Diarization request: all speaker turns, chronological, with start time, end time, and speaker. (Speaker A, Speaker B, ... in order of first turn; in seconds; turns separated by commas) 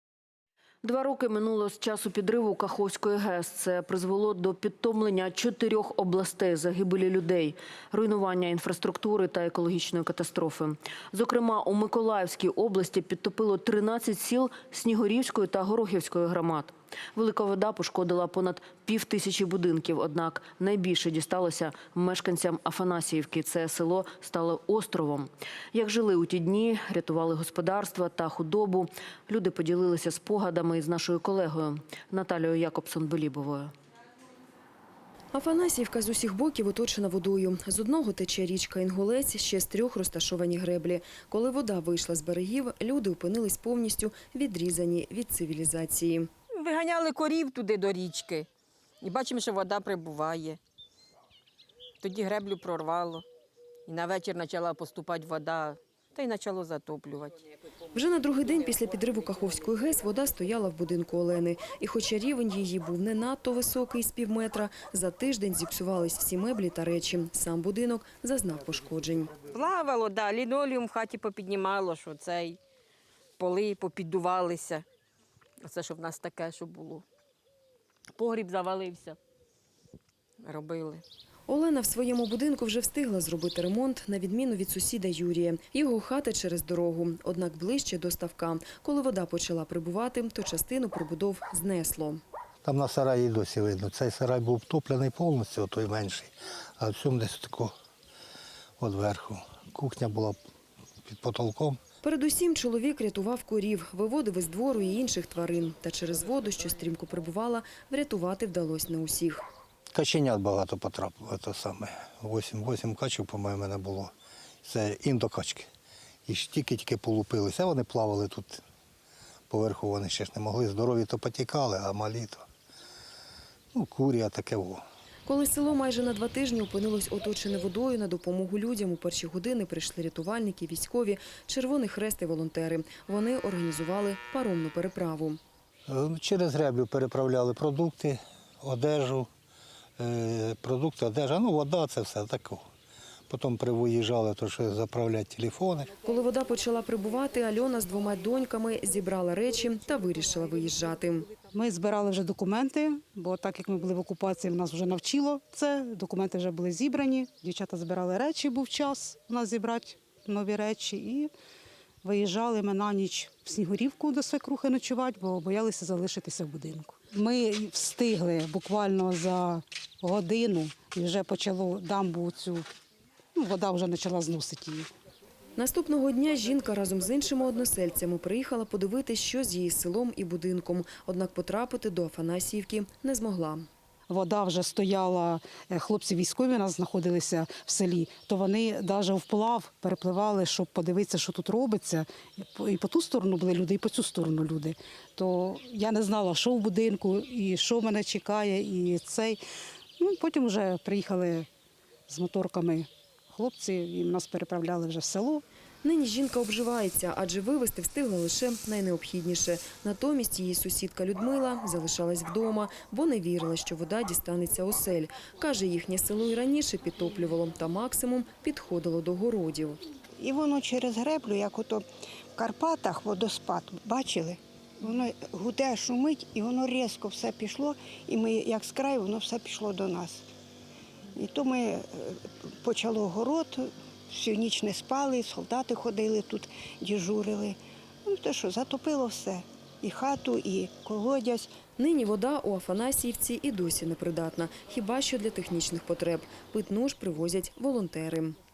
Speaker A: 0.8-33.7, Speaker B: 35.3-46.3, Speaker C: 46.5-48.5, Speaker C: 49.0-50.6, Speaker C: 52.0-53.2, Speaker C: 53.9-57.4, Speaker B: 57.9-69.3, Speaker C: 69.5-72.6, Speaker C: 73.4-74.8, Speaker C: 75.6-77.0, Speaker C: 78.1-79.2, Speaker C: 80.4-81.0, Speaker B: 81.5-92.2, Speaker D: 92.6-97.7, Speaker D: 98.8-100.4, Speaker D: 101.0-101.8, Speaker B: 102.0-109.4, Speaker D: 109.9-114.1, Speaker D: 114.6-115.7, Speaker D: 116.2-118.6, Speaker D: 119.5-122.5, Speaker D: 123.7-124.8, Speaker B: 125.3-135.4, Speaker D: 135.9-139.3, Speaker D: 140.0-142.7, Speaker D: 143.3-145.9, Speaker B: 146.0-151.3, Speaker E: 151.4-161.3, Speaker E: 162.0-172.7, Speaker E: 173.3-174.9, Speaker B: 175.6-183.7, Speaker E: 184.1-199.4, Speaker E: 200.0-201.5, Speaker E: 202.1-205.4, Speaker B: 205.8-219.8, Speaker F: 220.2-221.8, Speaker F: 222.4-230.3, Speaker F: 231.2-241.5, Speaker B: 241.8-248.3